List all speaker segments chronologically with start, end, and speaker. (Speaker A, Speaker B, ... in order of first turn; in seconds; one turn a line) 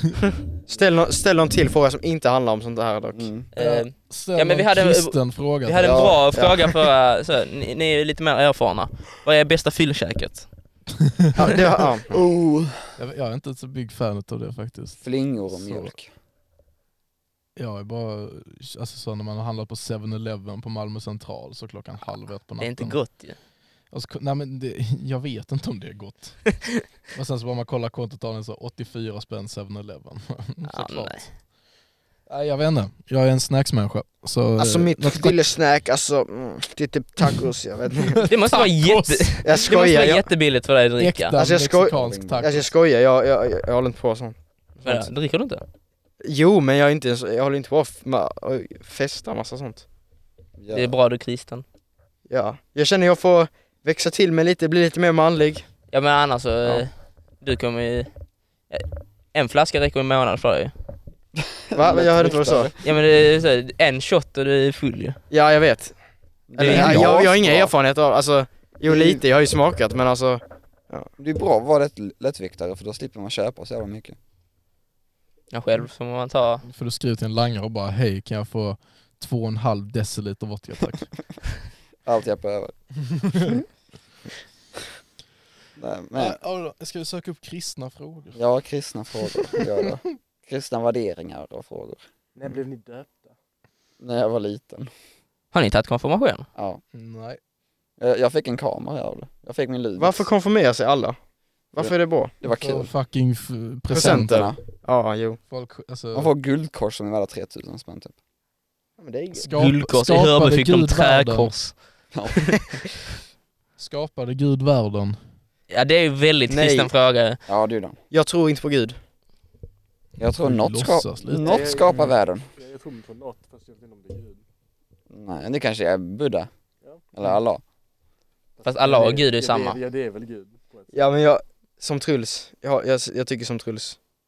Speaker A: 0.7-3.3
Speaker B: 3.1-3.5
Speaker C: 3.5-10.5
Speaker D: 3.6-6.1
Speaker B: 5.8-6.2
Speaker A: 6.3-6.6
Speaker A: 11.4-12.2
Speaker B: 12.1-12.8
Speaker D: 13.0-15.9
Speaker B: 15.0-16.1
Speaker D: 17.6-23.0
Speaker C: 22.6-23.4
Speaker D: 23.9-26.6
Speaker D: 27.1-31.2
Speaker C: 30.7-31.2
Speaker D: 32.3-35.4
Speaker A: 34.6-38.2
Speaker D: 38.1-39.4
Speaker C: 38.2-41.4
Speaker A: 39.4-40.2
Speaker D: 41.0-42.7
Speaker A: 41.4-45.1
Speaker B: 41.9-42.5
Speaker C: 44.9-45.6
Speaker A: 46.2-49.8
Speaker B: 50.6-50.9
Speaker C: 50.7-51.6
Speaker A: 52.3-55.7
Speaker C: 55.9-58.1
Speaker C: 58.7-60.7
Speaker B: 61.4-62.8
Speaker A: 61.7-62.7
Speaker C: 62.8-65.2
Speaker A: 65.3-66.0
Speaker B: 66.5-67.7
Speaker A: 66.6-71.1
Speaker C: 66.6-67.0
Speaker D: 66.7-67.0
Speaker B: 68.9-69.2
Speaker B: 71.2-74.2
Speaker C: 75.5-76.7
Speaker D: 76.7-81.1
Speaker B: 82.0-82.8
Speaker D: 83.2-83.6
Speaker B: 85.8-86.4
Speaker D: 86.2-88.4
Speaker B: 88.3-92.0
Speaker E: 92.4-93.3
Speaker B: 94.0-94.9
Speaker C: 95.5-96.5
Speaker B: 96.6-96.8
Speaker D: 96.9-97.4
Speaker B: 98.0-100.3
Speaker A: 100.0-101.2
Speaker A: 101.7-102.3
Speaker B: 101.8-102.9
Speaker D: 102.5-104.5
Speaker A: 103.9-105.4
Speaker B: 103.9-104.6
Speaker D: 105.5-106.3
Speaker B: 106.1-108.1
Speaker A: 109.0-109.5
Speaker D: 109.3-111.5
Speaker C: 109.6-111.8
Speaker B: 112.1-112.8
Speaker D: 113.8-115.2
Speaker C: 115.7-117.4
Speaker A: 116.5-116.9
Speaker B: 117.5-118.0
Speaker A: 118.1-119.0
Speaker B: 120.2-122.5
Speaker D: 120.2-121.6
Speaker E: 121.4-124.4
Speaker A: 121.9-122.1
Speaker B: 125.1-126.5
Speaker B: 127.1-127.6
Speaker E: 128.6-130.9
Speaker C: 128.7-129.8
Speaker A: 130.9-134.0